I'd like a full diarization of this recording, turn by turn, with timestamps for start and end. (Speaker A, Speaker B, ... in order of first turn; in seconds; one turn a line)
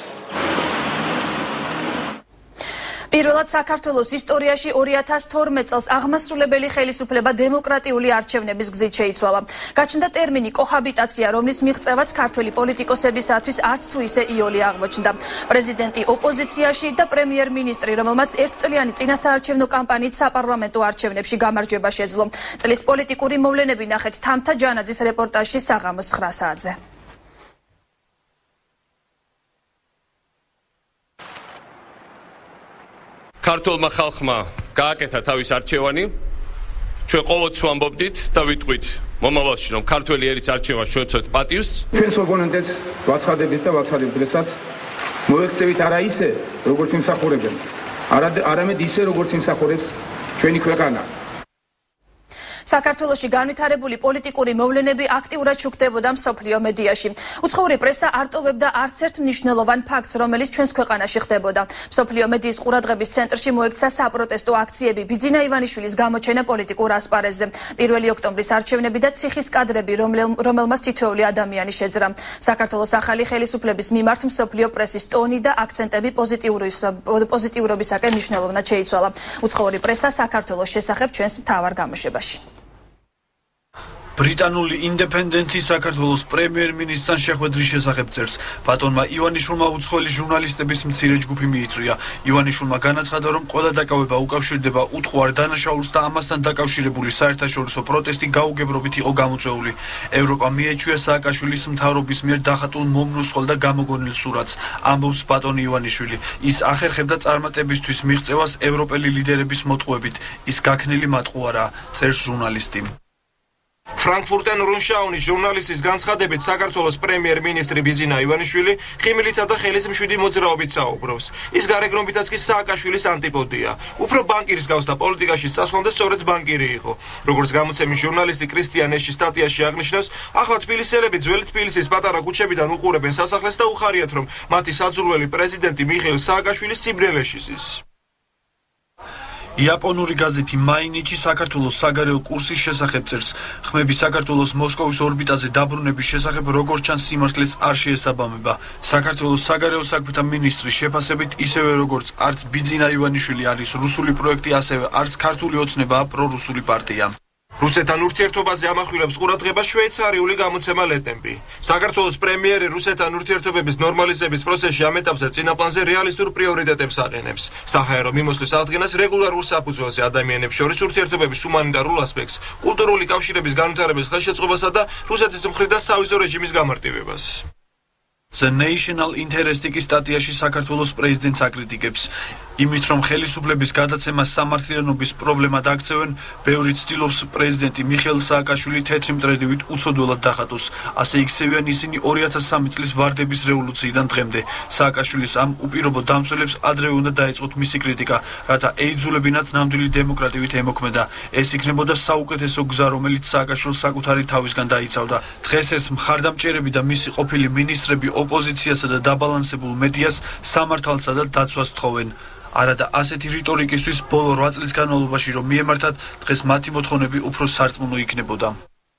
Speaker A: 3.1-26.8
Speaker B: 33.4-36.1
Speaker B: 37.0-41.8
Speaker C: 41.9-44.5
Speaker C: 45.3-51.1
Speaker A: 52.7-82.4
Speaker D: 84.2-112.9
Speaker E: 114.0-137.8
Speaker D: 139.6-157.1
Speaker E: 157.6-177.4
Speaker D: 178.3-218.6